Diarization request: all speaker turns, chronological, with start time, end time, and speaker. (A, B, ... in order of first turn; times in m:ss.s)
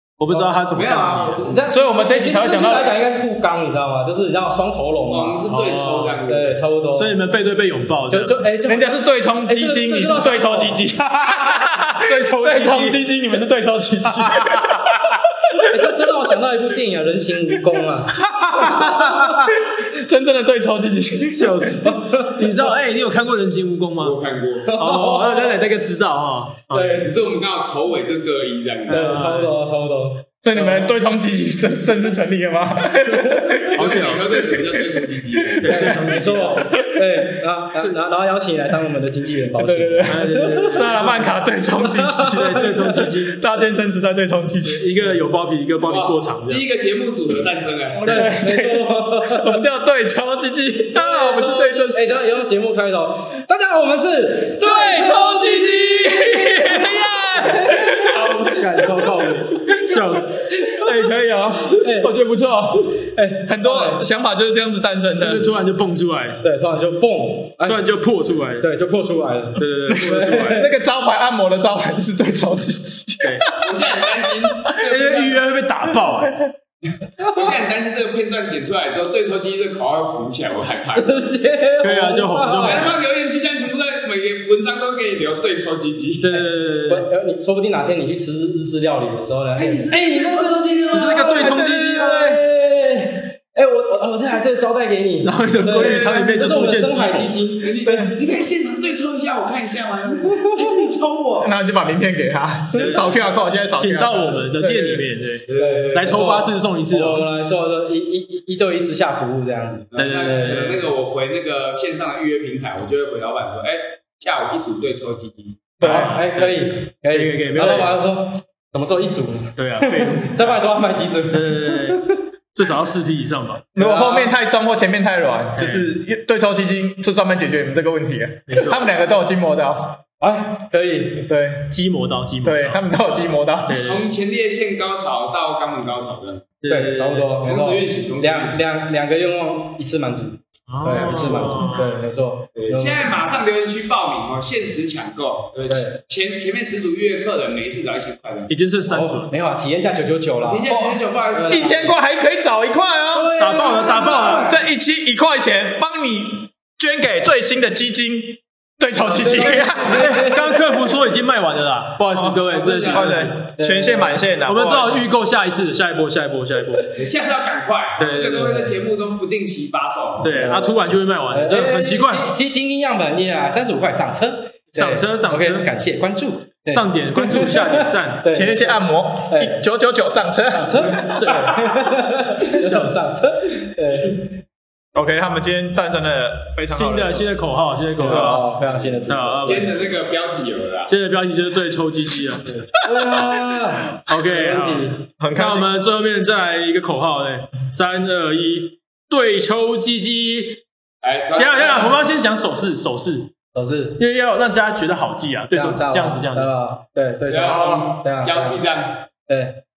0:00.2-0:01.4 A
0:00.7-0:01.6 B
0:01.4-0:05.4 C
0:01.7-0:03.0 D
0:05.1-0:06.6 B
0:05.5-0:06.2 A
0:06.3-0:07.2 C
0:06.9-0:08.4 A
0:08.1-0:10.8 C
0:08.7-0:15.8 D
0:12.0-0:13.0 A
0:15.6-0:19.5 C
0:18.2-0:21.9 D
0:21.3-0:24.2 A
0:21.8-0:22.6 C
0:24.0-0:24.8 B
0:24.6-0:25.6 C
0:24.7-0:27.0 A
0:26.7-0:27.2 C
0:27.0-0:29.3 B
0:28.9-0:29.6 A
0:28.9-0:30.9 C
0:30.4-0:33.8 D
0:33.2-0:33.6 C
0:33.7-0:36.2 B
0:33.7-0:34.4 A
0:34.4-0:36.0 D
0:35.6-0:36.7 A
0:35.7-0:40.8 C
0:36.7-0:37.3 D
0:39.5-0:44.9 D
0:40.0-0:41.3 A
0:41.8-0:43.0 C
0:42.2-0:43.4 A
0:44.6-0:46.6 A
0:45.8-0:48.1 B
0:47.9-0:52.1 D
0:48.0-0:49.6 C
0:50.9-0:56.8 C
0:54.6-0:58.3 D
0:57.3-0:58.9 C
0:58.0-1:01.1 A
1:00.7-1:05.5 D
1:01.7-1:02.1 C
1:03.2-1:04.0 C
1:05.2-1:06.4 A
1:06.4-1:07.9 C
1:07.6-1:08.7 A
1:08.6-1:10.7 C
1:09.6-1:10.4 A
1:09.9-1:10.5 B
1:10.3-1:13.7 D
1:13.6-1:15.4 B
1:14.7-1:16.5 A
1:17.2-1:17.5 C
1:17.3-1:21.3 B
1:20.9-1:22.9 C
1:21.8-1:23.0 A
1:22.6-1:26.3 B
1:26.2-1:27.1 A
1:26.3-1:38.1 C
1:29.6-1:31.5 B
1:30.9-1:32.4 A
1:35.2-1:37.4 A
1:37.6-1:41.5 B
1:40.3-1:40.9 C
1:41.4-1:45.0 D
1:43.8-1:47.3 A
1:45.5-1:46.1 B
1:45.5-1:50.7 C
1:49.9-1:55.8 B
1:50.0-1:50.8 A
1:55.8-1:56.2 D
1:55.8-1:58.0 A
1:55.8-2:02.2 C
1:59.6-2:00.7 A
2:01.3-2:03.6 A
2:03.7-2:04.3 C
2:03.7-2:10.0 D
2:05.6-2:05.9 A
2:08.5-2:08.8 A
2:10.2-2:11.3 C
2:11.2-2:11.7 D
2:11.7-2:12.8 A
2:12.4-2:13.9 D
2:13.7-2:14.1 A
2:13.7-2:16.5 B
2:16.6-2:17.3 A
2:16.7-2:23.2 C
2:17.4-2:18.6 B
2:20.7-2:22.0 A
2:22.6-2:28.5 B
2:25.7-2:26.0 C
2:28.5-2:29.3 A
2:28.9-2:30.7 C
2:30.4-2:32.0 B
2:30.6-2:33.3 D
2:31.3-2:31.7 C
2:33.1-2:34.6 C
2:33.4-2:34.6 A
2:34.4-2:40.2 D
2:39.1-2:40.8 C
2:39.9-2:43.5 A
2:42.1-2:45.1 D
2:42.4-2:43.2 B
2:43.6-2:44.2 C
2:44.4-2:46.9 A
2:46.9-2:50.6 B
2:48.0-2:48.6 A
2:48.1-2:48.7 C
2:50.2-2:52.3 A
2:50.2-2:59.6 C
2:54.7-2:55.7 A
2:56.7-2:58.3 A
2:58.3-3:01.3 D
3:00.5-3:04.4 C
3:01.1-3:01.8 A
3:02.4-3:03.1 A
3:04.9-3:07.4 D
3:06.7-3:09.9 A
3:08.0-3:09.8 C
3:08.0-3:08.6 D
3:09.4-3:10.9 B
3:10.9-3:12.7 A
3:12.7-3:15.0 C
3:14.0-3:20.6 A
3:15.2-3:15.7 D
3:21.0-3:22.0 B
3:21.4-3:23.3 A
3:23.5-3:24.0 C
3:24.0-3:26.5 A
3:25.5-3:28.6 C
3:27.3-3:29.1 B
3:27.5-3:27.8 D
3:29.3-3:29.6 C